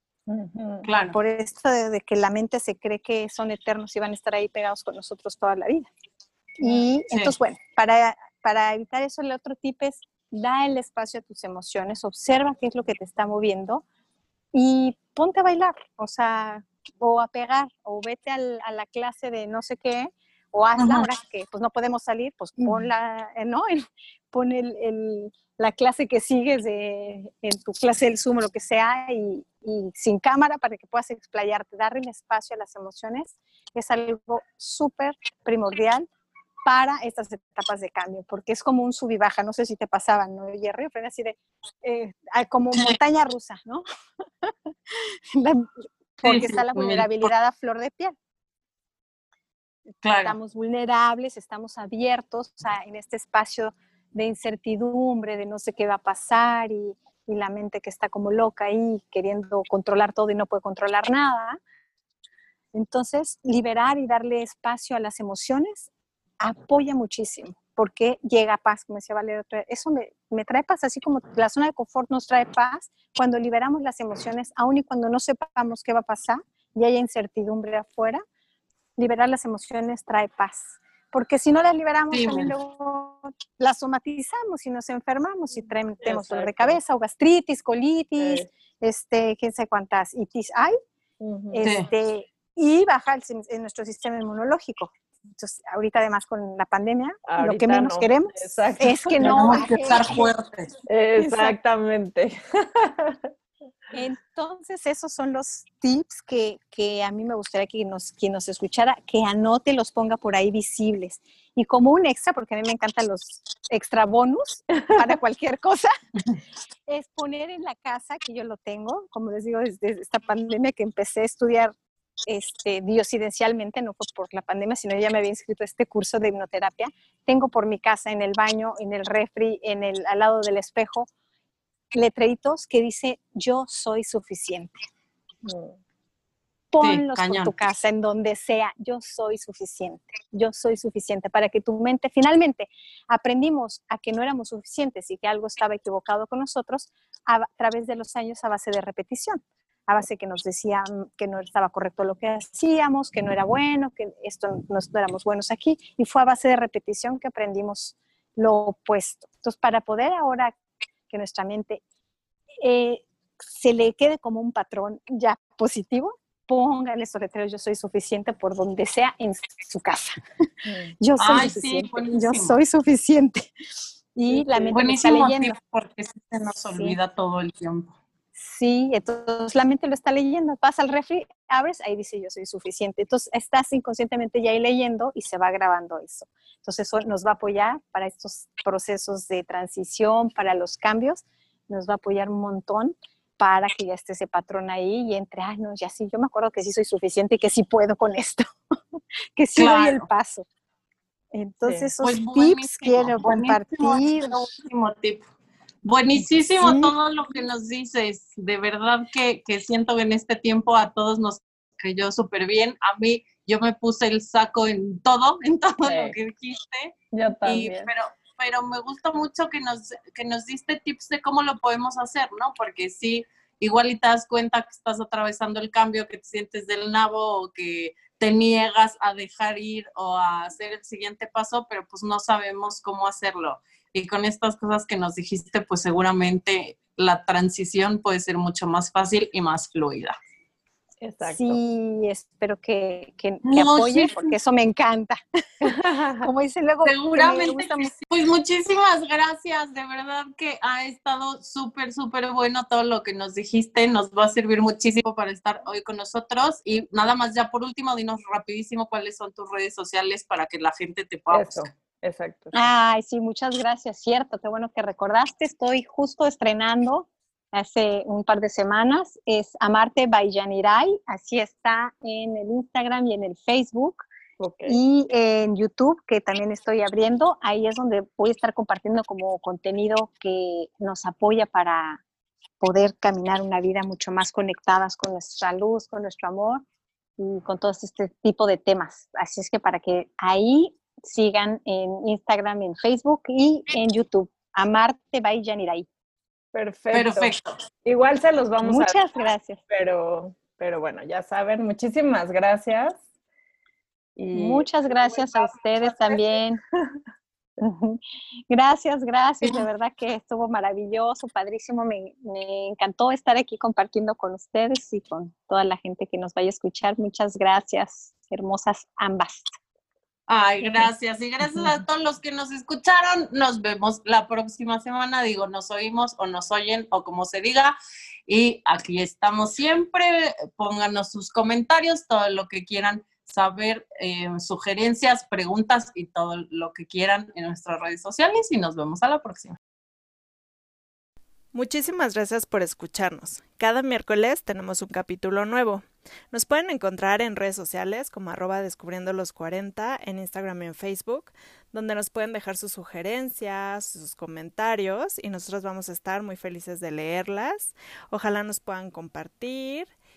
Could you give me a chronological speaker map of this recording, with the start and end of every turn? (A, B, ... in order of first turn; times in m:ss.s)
0:00.3-0:00.9 A
0:00.8-0:01.2 B
0:01.1-0:05.9 C
0:06.6-0:13.8 C
0:14.5-0:36.1 C
0:20.8-0:21.1 B
0:36.7-0:43.8 C
0:44.4-0:48.2 C
0:46.2-0:47.3 B
0:50.0-0:50.4 B
0:50.2-1:01.6 C
1:02.7-1:05.9 C
1:06.4-1:18.2 C
1:19.0-1:30.8 C
1:22.1-1:22.5 B
1:26.0-1:26.8 A
1:28.2-1:28.5 A
1:31.2-1:31.7 A
1:31.5-1:40.3 C
1:31.6-1:31.9 B
1:37.3-1:39.6 A
1:39.2-1:40.7 B
1:40.9-1:43.3 A
1:41.2-1:41.6 C
1:43.9-1:55.9 C
1:56.9-2:01.7 C
2:02.3-2:11.1 C
2:11.9-2:14.8 C
2:15.4-2:15.8 A
2:16.7-2:40.6 C
2:16.8-2:17.5 B
2:41.1-2:41.8 C
2:42.6-2:50.2 C
2:50.6-2:51.0 A
2:51.0-2:53.5 C
2:51.2-2:52.6 B
2:54.2-2:55.6 C
2:54.3-2:54.7 A
2:54.7-2:58.0 B
2:58.4-3:18.5 C
3:19.4-3:20.5 C
3:19.6-3:20.1 B
3:21.3-3:24.5 C
3:21.6-3:21.9 A
3:22.0-3:25.3 B
3:25.8-4:00.2 B
3:26.6-3:26.9 C
3:35.8-3:36.2 A
3:37.1-3:37.9 A
4:01.0-4:01.6 A
4:01.2-4:08.0 C
4:03.4-4:04.3 B
4:05.6-4:06.3 A
4:06.8-4:21.7 B
4:21.3-4:22.7 A
4:22.5-4:34.1 C
4:34.4-4:34.8 A
4:34.7-4:42.0 C
4:42.6-4:46.6 C
4:47.2-4:55.9 C
4:56.5-4:57.3 A
4:56.9-4:57.5 B
4:57.8-4:59.0 A
4:58.6-4:59.6 C
4:59.7-5:03.0 A
5:04.2-5:06.4 A
5:04.3-5:06.6 C
5:07.6-5:19.5 C
5:20.3-5:27.8 B
5:28.3-5:39.6 B
5:41.5-5:59.9 D